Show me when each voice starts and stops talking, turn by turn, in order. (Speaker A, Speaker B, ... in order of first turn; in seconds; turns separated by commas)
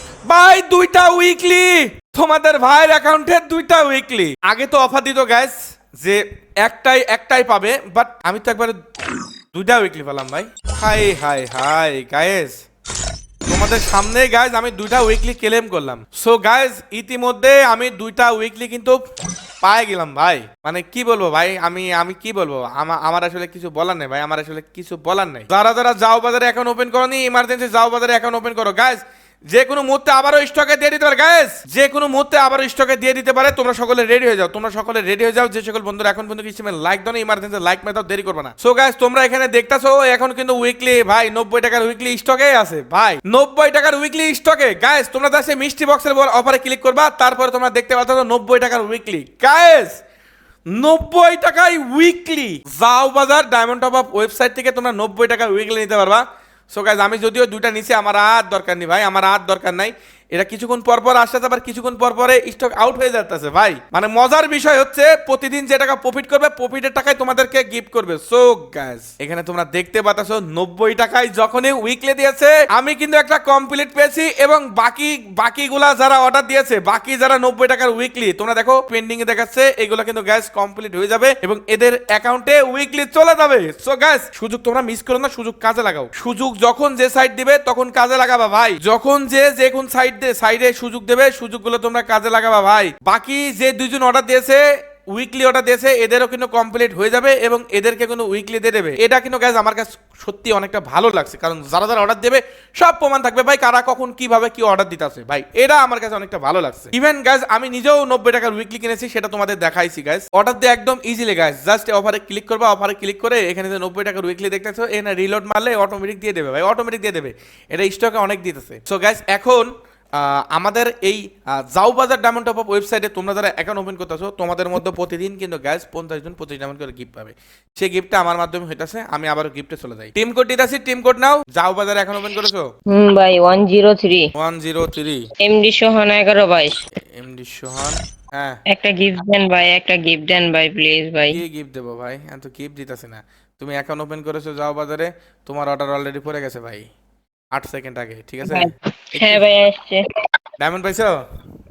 Speaker A: 0.2-8.8, Speaker A: 9.5-12.6, Speaker A: 13.4-19.0, Speaker A: 19.6-50.0, Speaker A: 50.7-132.7, Speaker B: 132.9-134.2, Speaker A: 134.3-135.2, Speaker B: 135.4-136.8, Speaker A: 137.1-138.6, Speaker B: 138.7-141.4, Speaker A: 141.3-146.8, Speaker A: 147.5-149.4, Speaker B: 148.4-150.0, Speaker A: 150.6-151.2